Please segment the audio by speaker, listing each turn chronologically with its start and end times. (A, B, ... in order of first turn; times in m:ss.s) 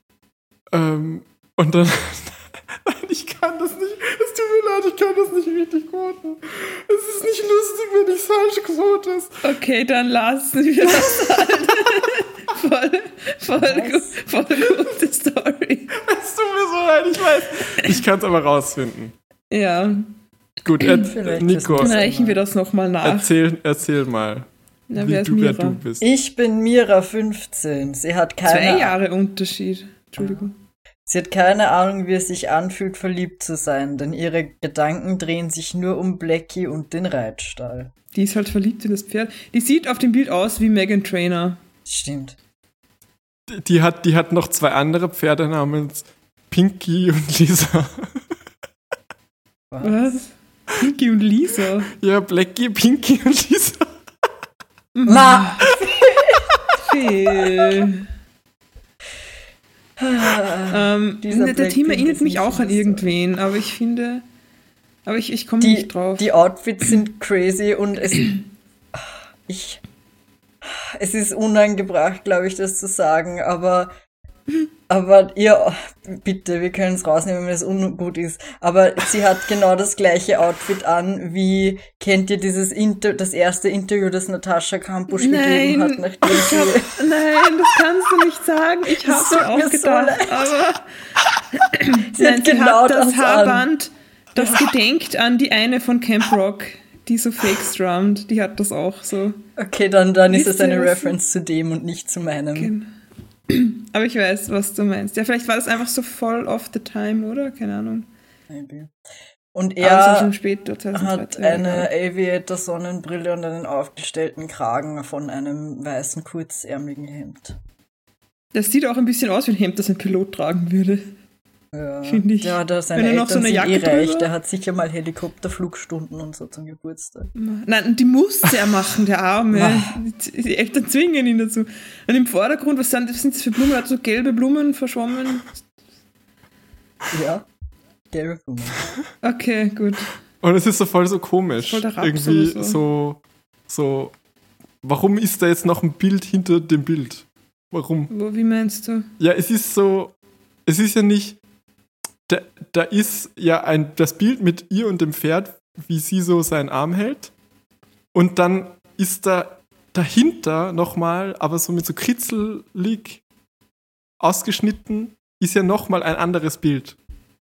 0:00.7-0:09.4 A
0:09.4-0:16.0 B
0:11.2-0:11.6 A
0:13.6-0:14.2 C
0:16.0-0:19.1 A
0:19.5-0:20.1 B
0:20.6-0:22.0 A
0:21.0-0:22.4 C
0:21.8-0:23.3 B
0:23.0-0:26.1 A
0:24.9-0:25.8 B
0:26.0-0:28.9 C
0:28.4-0:30.6 B
0:31.1-0:37.9 C
0:38.1-0:41.6 B
0:41.9-0:42.4 C
0:43.5-0:48.2 A
0:49.7-0:50.2 C
0:49.8-0:51.9 B
0:52.0-0:53.9 A
0:55.0-0:55.8 B
0:55.1-0:56.5 C
0:56.8-0:58.0 B
1:00.0-1:03.1 C
1:00.7-1:04.2 B
1:05.1-1:06.3 B
1:05.6-1:09.8 C
1:10.6-1:13.9 C
1:14.9-1:27.0 C
1:25.1-1:30.9 B
1:29.0-1:30.5 C
1:31.6-1:39.4 B
1:32.1-1:33.7 C
1:39.6-1:42.7 C
1:40.3-1:41.2 B
1:42.6-1:42.9 B
1:43.5-1:48.1 B
1:48.5-1:48.9 C
1:49.5-1:50.3 C
1:49.8-1:51.9 B
1:50.9-1:57.6 C
1:58.5-2:01.1 B
2:01.7-2:07.3 C
2:02.1-2:04.3 B
2:07.4-2:15.5 B
2:09.5-2:10.0 C
2:17.1-2:17.5 C
2:18.1-2:18.9 C
2:19.2-2:20.1 B
2:20.4-2:24.1 A
2:21.6-2:22.8 B
2:24.8-2:28.1 A
2:28.1-2:29.1 B
2:29.2-2:30.1 A
2:30.7-2:31.4 A
2:32.3-2:37.3 A
2:38.1-2:43.2 A
2:44.2-2:47.0 A